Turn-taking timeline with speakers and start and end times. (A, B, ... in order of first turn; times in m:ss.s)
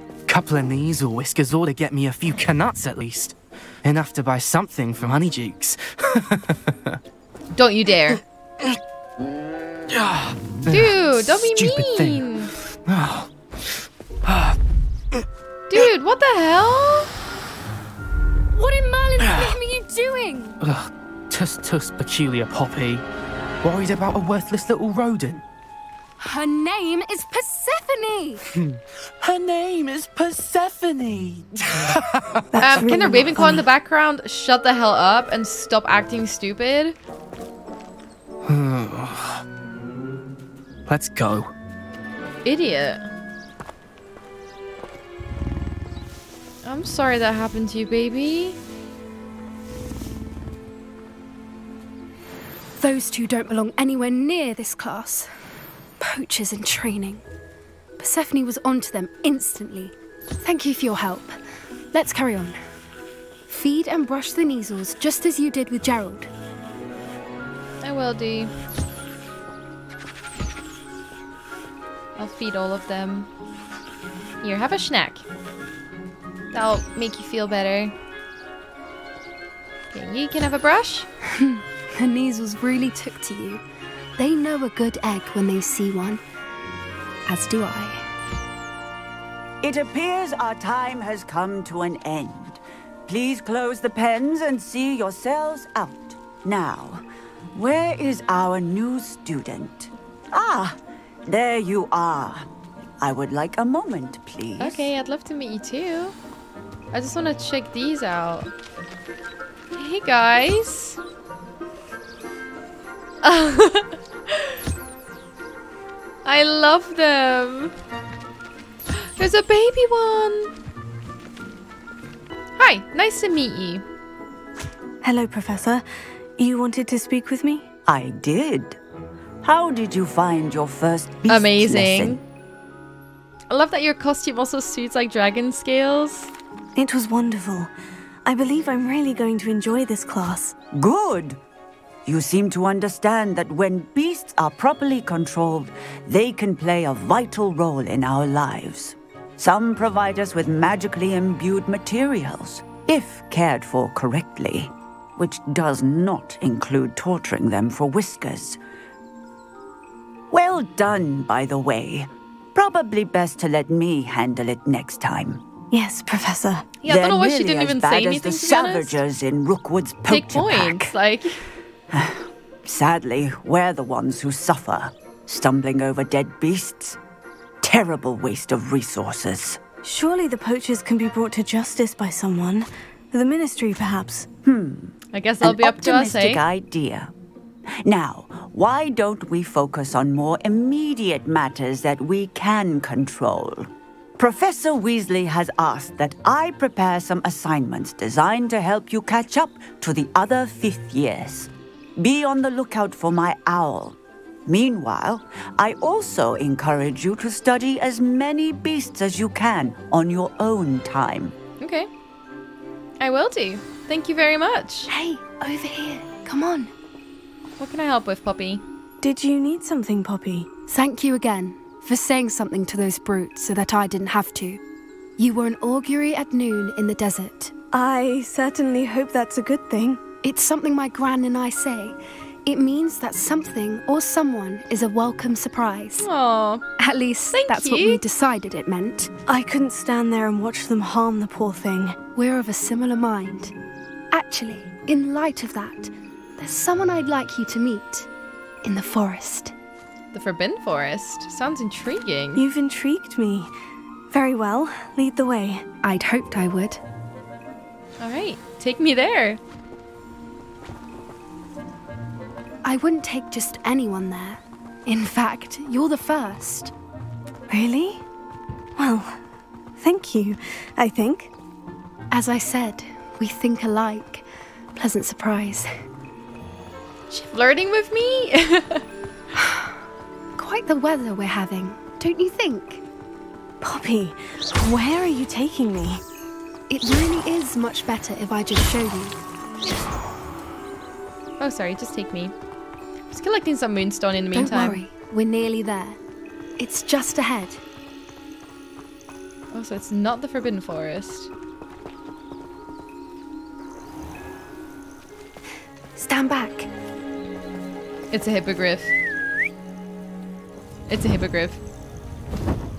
0:00.3-0:06.4 A
0:07.6-0:08.2 B
0:09.9-0:13.3 A
0:10.7-0:12.5 B
0:14.3-0:14.6 A
0:15.7-0:17.1 B
0:18.6-0:20.6 C
0:19.2-0:19.6 A
0:20.6-0:23.0 A
0:23.6-0:25.4 A
0:26.2-0:28.4 C
0:29.2-0:32.9 A
0:32.5-0:33.7 D
0:32.6-0:37.0 B
0:38.4-0:39.4 A
0:40.9-0:41.5 A
0:42.4-0:43.0 B
0:46.6-0:48.6 B
0:52.8-0:55.3 C
0:56.0-0:57.2 C
0:58.0-1:01.4 C
1:01.9-1:02.6 C
1:03.5-1:06.3 C
1:07.8-1:08.5 B
1:12.2-1:13.3 B
1:14.4-1:15.2 B
1:16.5-1:18.0 B
1:19.9-1:21.1 B
1:21.4-1:23.6 C
1:24.2-1:26.2 C
1:27.3-1:28.0 C
1:29.6-1:37.0 E
1:37.5-1:42.5 E
1:43.0-1:44.9 E
1:44.6-1:46.2 B
1:46.9-1:48.5 B
1:49.8-1:51.0 B
1:53.2-1:54.6 B
1:56.2-1:57.7 B
1:59.2-2:00.5 B
2:02.6-2:03.8 B
2:05.0-2:05.8 D
2:06.4-2:07.7 D
2:07.9-2:08.8 E
2:09.4-2:12.2 E
2:11.3-2:12.2 B
2:13.5-2:16.3 B
2:16.8-2:17.7 D
2:18.2-2:20.6 D
2:20.7-2:21.4 E
2:22.1-2:38.6 E
2:40.3-2:45.4 E
2:45.7-2:46.7 D
2:46.8-2:49.0 B
2:46.8-2:50.9 E
2:50.1-2:51.4 B
2:51.9-2:57.0 E
2:57.6-2:59.6 E
2:59.8-3:04.3 D
3:04.4-3:07.1 E
3:05.1-3:06.4 B
3:07.8-3:31.3 E
3:31.6-3:31.9 B
3:33.0-3:34.9 B
3:34.9-3:36.7 C
3:37.6-3:38.6 B
3:39.0-3:40.5 D
3:40.7-3:44.6 C
3:45.2-3:47.5 C
3:47.7-3:50.0 D
3:50.2-3:56.1 C
3:56.0-3:56.7 B
3:56.8-3:59.1 C
3:57.3-3:58.0 B
3:59.3-4:02.0 D
4:02.2-4:03.5 C
4:04.1-4:08.1 C
4:08.6-4:09.5 C
4:10.1-4:12.4 B
4:12.4-4:13.5 D
4:14.1-4:15.6 D
4:15.8-4:16.8 C
4:18.0-4:19.4 B
4:22.6-4:26.7 C
4:27.5-4:28.0 D
4:28.8-4:29.2 D
4:29.8-4:31.3 D
4:32.1-4:35.7 C
4:37.1-4:38.8 B
4:39.4-4:39.7 C
4:40.4-4:42.8 C
4:43.6-4:46.0 D
4:46.7-4:49.2 C
4:51.4-4:52.3 B
4:53.1-4:54.8 B
4:54.3-4:56.0 C
4:56.6-4:57.6 C
4:59.5-5:01.3 B
5:06.0-5:06.7 C
5:08.1-5:08.9 B
5:10.9-5:11.6 B